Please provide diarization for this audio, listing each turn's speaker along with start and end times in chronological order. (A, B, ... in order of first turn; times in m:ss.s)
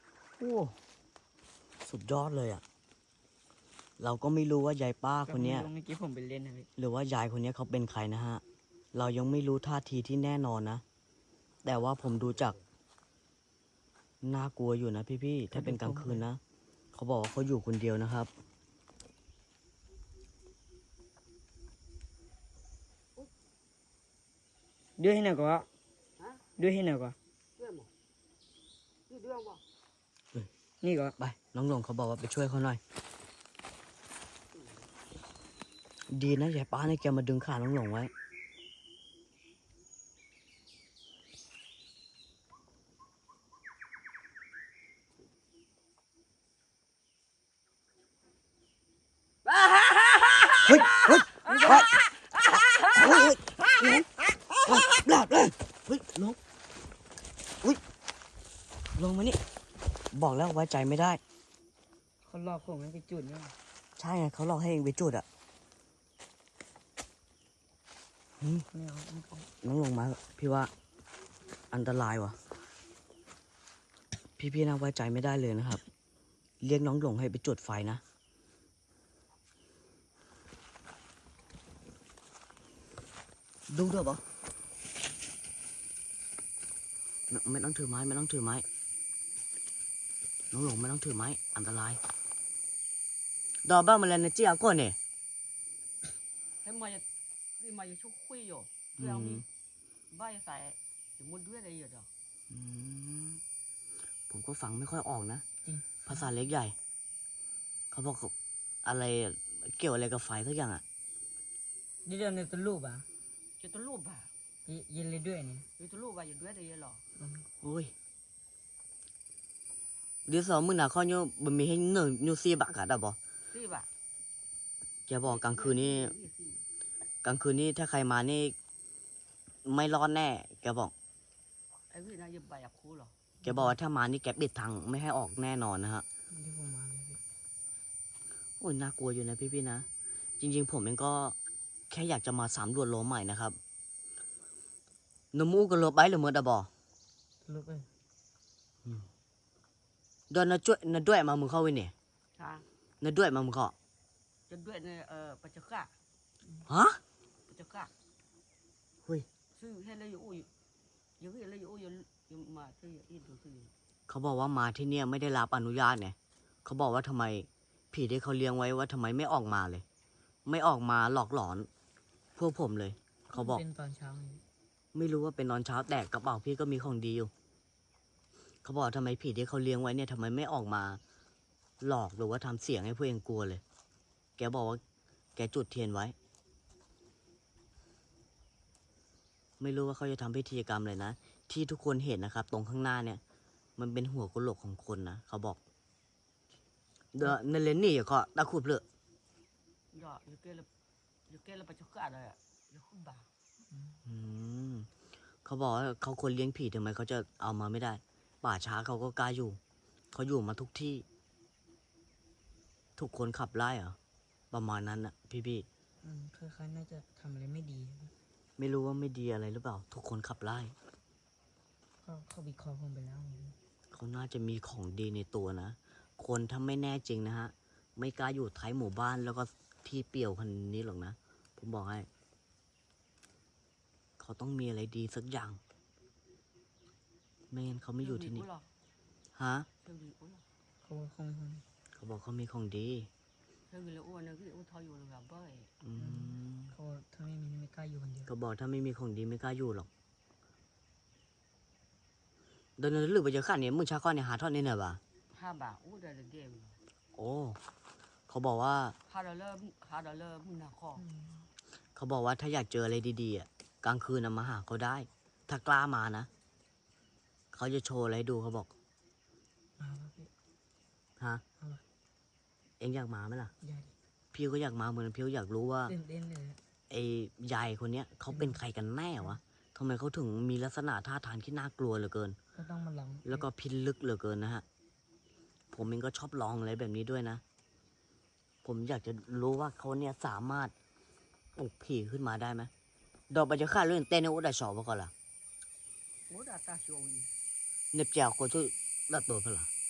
0:00.4-0:00.7 A
0:01.8-0:02.6 A
0:04.0-0:05.7 A
0:05.3-0:06.7 B
0:06.8-0:08.4 A
0:08.9-0:10.8 A
0:11.6-0:12.6 A
0:14.2-0:16.4 A
0:15.5-0:16.2 B
0:16.9-0:18.3 A
0:25.0-0:25.7 B
0:26.2-0:26.4 C
0:26.6-0:27.2 B
0:27.6-0:27.9 C
0:29.1-0:29.6 C
0:30.8-0:31.3 B
0:31.3-0:32.8 A
0:34.5-0:34.9 C
0:36.1-0:38.1 A
0:49.4-0:50.7 C
0:50.6-0:51.9 A
0:51.4-0:51.8 C
0:52.7-0:56.4 A
0:58.9-0:59.4 A
1:00.1-1:01.2 A
1:02.2-1:03.5 B
1:04.0-1:05.2 A
1:08.4-1:08.7 A
1:08.7-1:09.5 B
1:09.6-1:10.7 A
1:11.7-1:12.4 A
1:14.4-1:15.8 A
1:16.6-1:18.0 A
1:23.7-1:24.2 A
1:27.3-1:28.6 A
1:30.5-1:32.0 A
1:33.6-1:35.0 A
1:36.6-1:37.0 C
1:37.6-1:39.4 C
1:39.0-1:39.4 A
1:40.1-1:42.1 C
1:42.5-1:43.4 A
1:44.3-1:45.4 A
1:45.6-1:46.3 B
1:46.1-1:46.8 A
1:47.9-1:48.3 A
1:48.8-1:50.8 A
1:52.0-1:53.0 B
1:53.6-1:54.3 C
1:54.6-1:55.7 B
1:55.8-1:57.0 C
1:57.2-1:57.5 B
1:57.6-1:57.9 A
2:00.3-2:03.2 A
2:03.5-2:03.9 C
2:05.1-2:06.1 A
2:05.2-2:06.6 C
2:07.2-2:08.5 A
2:09.6-2:10.9 A
2:11.9-2:13.1 C
2:13.4-2:13.8 B
2:13.4-2:16.0 A
2:16.3-2:17.2 B
2:18.6-2:19.9 A
2:20.4-2:21.4 A
2:21.9-2:23.6 A
2:25.3-2:26.7 A
2:27.4-2:27.9 B
2:30.3-2:31.9 A
2:32.4-2:32.6 C
2:33.0-2:33.7 A
2:34.5-2:35.9 C
2:36.7-2:37.0 A
2:37.5-2:37.9 C
2:39.5-2:40.5 C
2:41.2-2:43.7 C
2:44.1-2:49.8 A
2:50.4-2:51.7 A
2:52.4-2:53.6 A
2:53.3-2:54.4 B
2:54.9-2:57.3 A
2:58.6-3:01.0 A
3:01.8-3:03.6 A
3:04.4-3:04.8 A
3:05.4-3:06.1 A
3:09.6-3:13.2 A
3:13.8-3:15.6 A
3:17.1-3:18.8 A
3:19.9-3:20.7 C
3:21.3-3:23.3 C
3:23.7-3:24.0 B
3:24.0-3:24.9 A
3:25.4-3:29.6 A
3:30.1-3:31.0 A
3:33.0-3:34.0 A
3:34.5-3:35.7 A
3:36.0-3:38.1 B
3:38.6-3:40.7 A
3:42.0-3:43.6 B
3:43.9-3:52.1 A
3:54.2-3:55.6 A
3:57.5-3:58.4 A
3:58.0-3:58.7 C
3:59.3-3:59.7 A
3:59.8-4:00.4 C
4:00.8-4:01.6 B
4:01.9-4:03.1 A
4:03.7-4:05.7 C
4:05.8-4:06.7 A
4:06.0-4:08.3 B
4:08.3-4:09.9 A
4:12.8-4:15.0 A
4:15.3-4:16.8 C
4:17.2-4:17.6 A
4:18.3-4:19.0 A
4:19.1-4:21.0 C
4:21.0-4:21.5 B
4:22.0-4:26.3 A
4:27.5-4:28.7 A
4:29.8-4:30.3 B
4:31.2-4:31.4 A
4:32.8-4:33.5 A
4:33.6-4:33.9 B
4:34.3-4:35.9 A
4:35.9-4:36.6 B
4:36.9-4:42.4 A
4:38.3-4:38.6 B
4:42.5-4:43.5 B
4:43.2-4:44.6 A
4:45.7-4:47.4 A
4:48.6-4:50.7 A
4:51.6-4:52.7 A
4:53.3-4:55.1 A
4:56.3-4:57.3 C
4:57.9-4:59.7 A